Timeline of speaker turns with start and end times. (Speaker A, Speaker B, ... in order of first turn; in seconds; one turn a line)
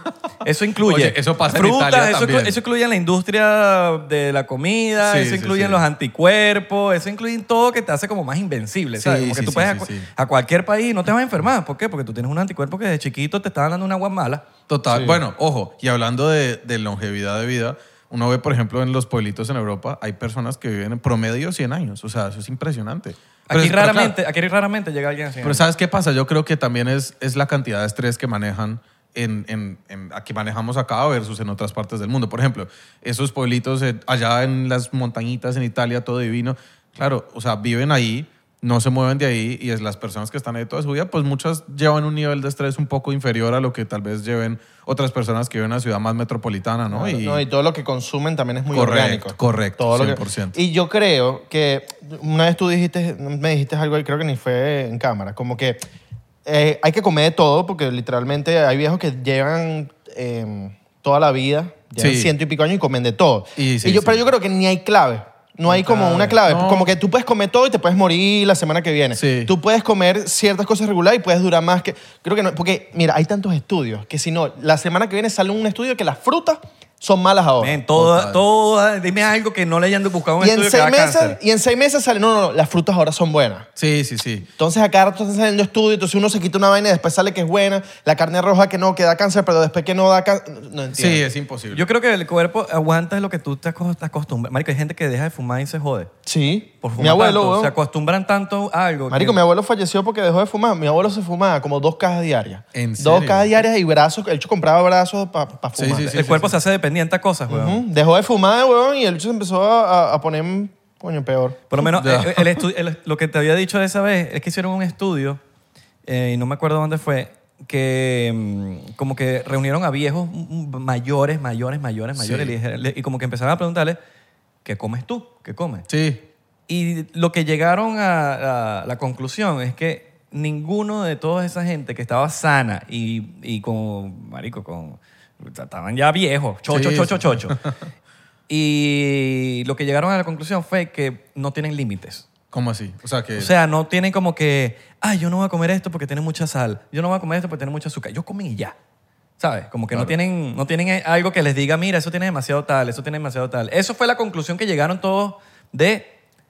Speaker A: 0.4-14.4
Speaker B: 0.8-2.6
Speaker B: 5.0-5.8
Speaker B: 9.0-10.1
Speaker B: 14.7-24.2
Speaker A: 23.5-25.6
Speaker B: 25.4-47.4
Speaker C: 46.9-55.9
Speaker B: 48.7-50.6
Speaker C: 56.4-77.8
Speaker B: 62.0-62.3
Speaker B: 63.6-64.2
Speaker B: 65.7-66.9
Speaker B: 69.2-69.5
Speaker A: 77.6-81.4
Speaker B: 77.9-78.4
Speaker C: 80.4-83.7
Speaker B: 83.8-84.5
Speaker C: 84.6-91.2
Speaker B: 90.9-91.8
Speaker A: 91.7-96.1
Speaker C: 96.2-97.7
Speaker A: 96.8-99.4
Speaker C: 99.1-106.3
Speaker B: 102.7-103.5
Speaker B: 105.8-106.5
Speaker A: 106.1-107.8
Speaker C: 107.5-111.6
Speaker A: 111.7-115.4
Speaker B: 111.8-112.6
Speaker A: 116.0-124.0
Speaker B: 122.2-122.5
Speaker A: 124.6-125.8
Speaker B: 125.9-126.2
Speaker A: 126.7-137.6
Speaker B: 136.7-137.7
Speaker A: 138.5-142.3
Speaker B: 142.5-143.5
Speaker A: 143.4-148.7
Speaker A: 149.4-156.1